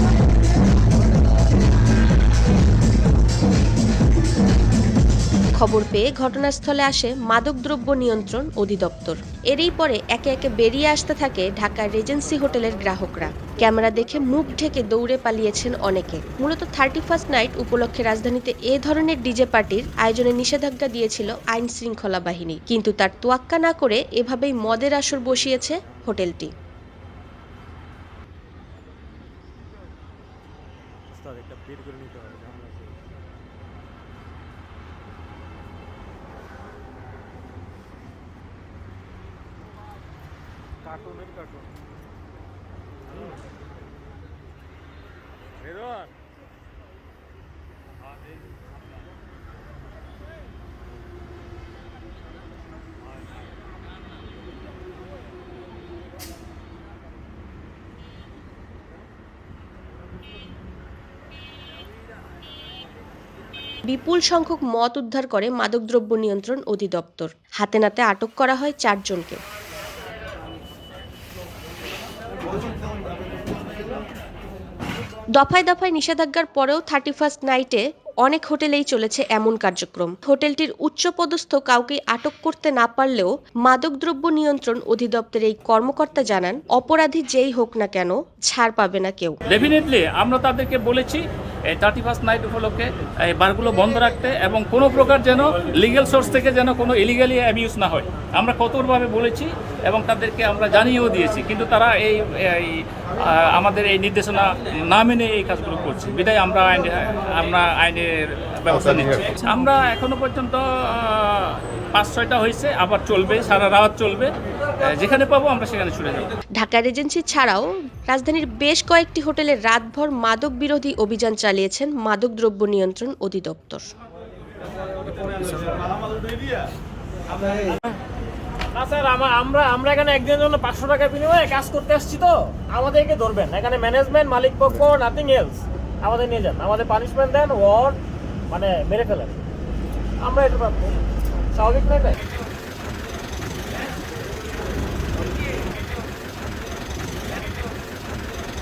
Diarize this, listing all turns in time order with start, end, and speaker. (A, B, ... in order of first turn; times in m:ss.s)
0:05.6-0:26.5 A
0:45.7-0:46.1 B
1:03.9-1:09.4 A
1:15.4-1:29.4 A
1:29.5-1:56.3 C
1:56.6-2:03.9 A
2:05.4-2:05.7 B
2:07.7-2:08.0 B
2:08.7-2:19.4 B
2:20.2-2:21.0 B
2:21.5-2:22.2 B